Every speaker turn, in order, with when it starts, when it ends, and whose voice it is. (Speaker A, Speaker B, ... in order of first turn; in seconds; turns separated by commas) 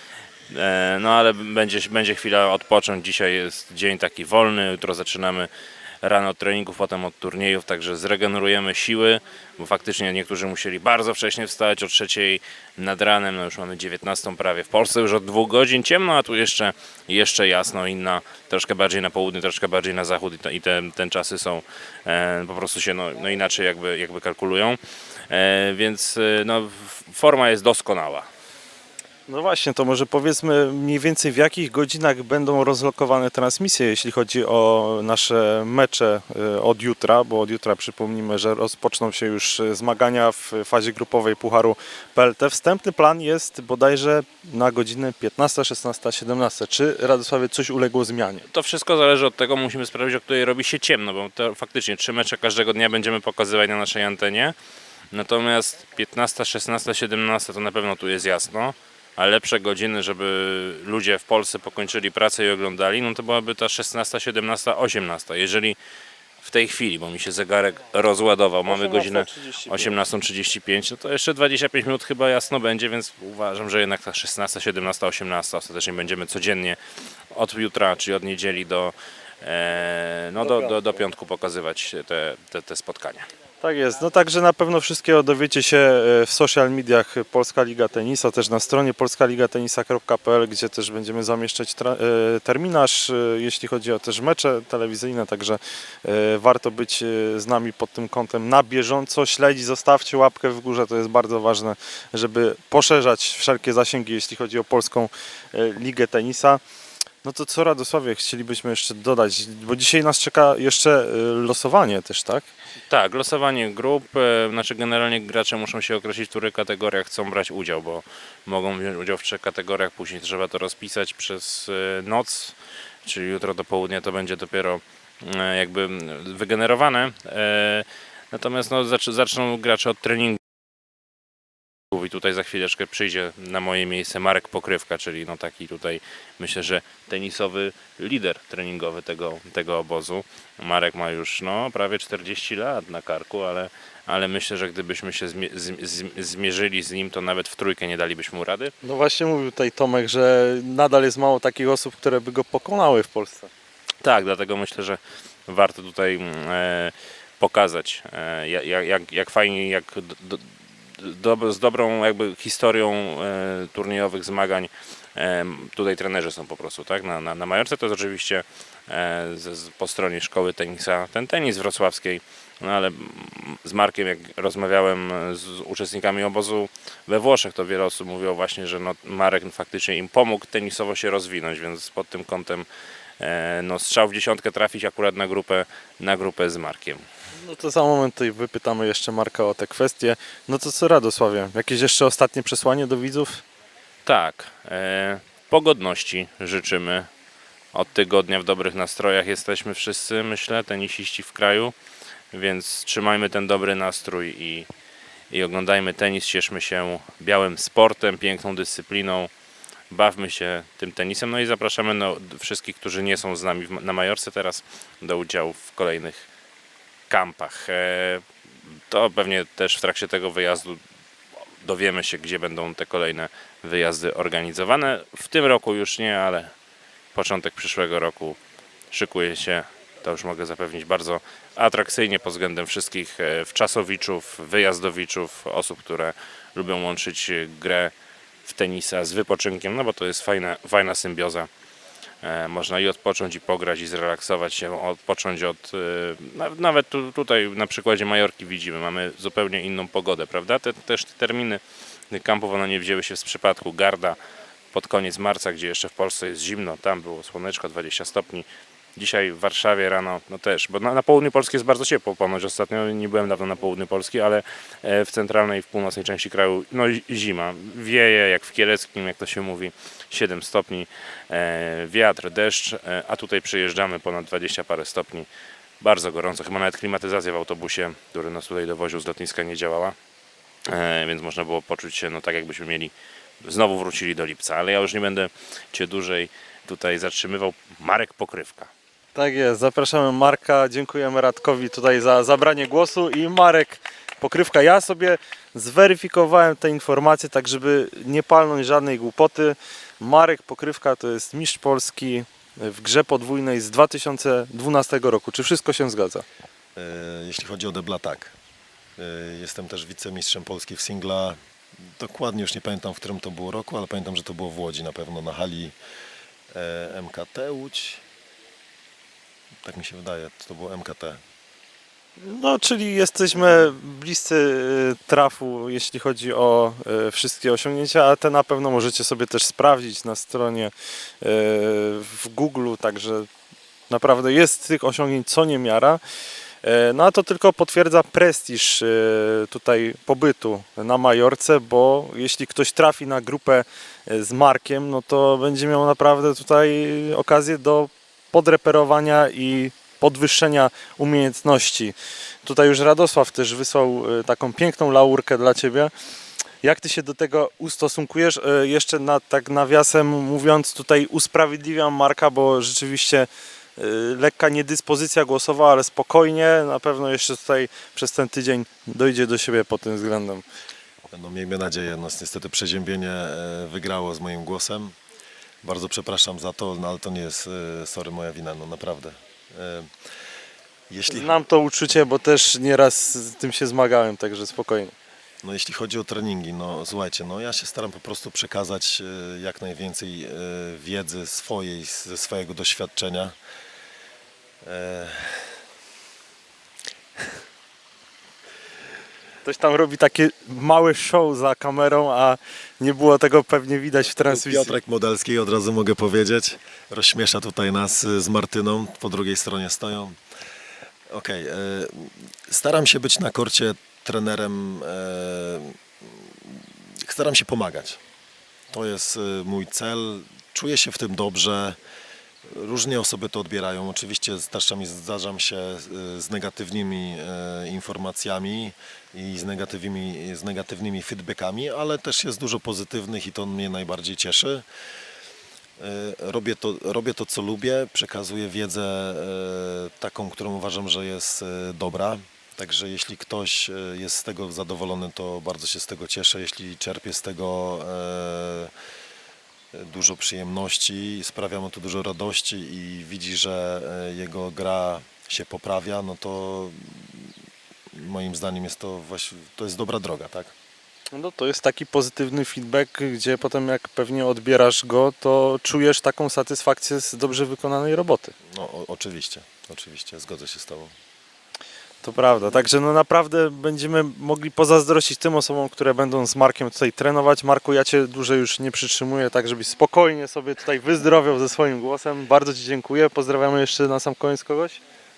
Speaker A: 0.5-5.5, Speaker A: 6.0-24.8, Speaker A: 25.3-28.3, Speaker B: 29.3-48.5, Speaker A: 48.5-54.5, Speaker A: 55.1-65.8, Speaker A: 66.4-76.8, Speaker B: 68.7-70.0, Speaker A: 77.3-83.3, Speaker B: 83.6-106.6, Speaker B: 107.2-112.5, Speaker A: 112.9-130.4, Speaker A: 131.9-148.7, Speaker B: 148.8-153.5, Speaker A: 154.0-160.5, Speaker A: 161.0-182.7, Speaker A: 183.2-187.0, Speaker B: 187.4-193.4, Speaker A: 194.0-197.1, Speaker A: 197.7-201.7, Speaker A: 202.3-204.7, Speaker A: 205.3-209.3, Speaker A: 209.9-216.3, Speaker A: 217.1-218.2, Speaker A: 218.9-220.8, Speaker A: 221.6-226.5, Speaker A: 227.1-228.4, Speaker A: 228.9-237.9, Speaker A: 238.4-241.5, Speaker A: 242.2-251.6, Speaker A: 252.1-254.2, Speaker A: 254.7-275.3, Speaker A: 275.8-280.0, Speaker A: 280.7-288.7, Speaker B: 289.1-306.2, Speaker C: 306.8-308.4, Speaker C: 309.0-311.4, Speaker C: 312.0-315.7, Speaker C: 316.5-318.0, Speaker C: 319.6-321.2, Speaker B: 322.2-333.3, Speaker B: 333.9-336.0, Speaker B: 336.6-355.9, Speaker B: 356.6-370.4, Speaker C: 371.1-375.0, Speaker C: 375.6-379.9, Speaker C: 380.9-381.4, Speaker B: 381.1-384.9, Speaker C: 385.4-393.4, Speaker C: 394.6-395.4, Speaker B: 399.4-404.8, Speaker C: 404.2-410.2, Speaker C: 411.1-418.0, Speaker C: 418.7-421.8, Speaker C: 422.5-434.6, Speaker C: 435.8-448.7, Speaker C: 449.7-457.2, Speaker C: 457.9-460.5, Speaker B: 461.1-468.3, Speaker C: 468.5-470.9, Speaker B: 472.0-484.8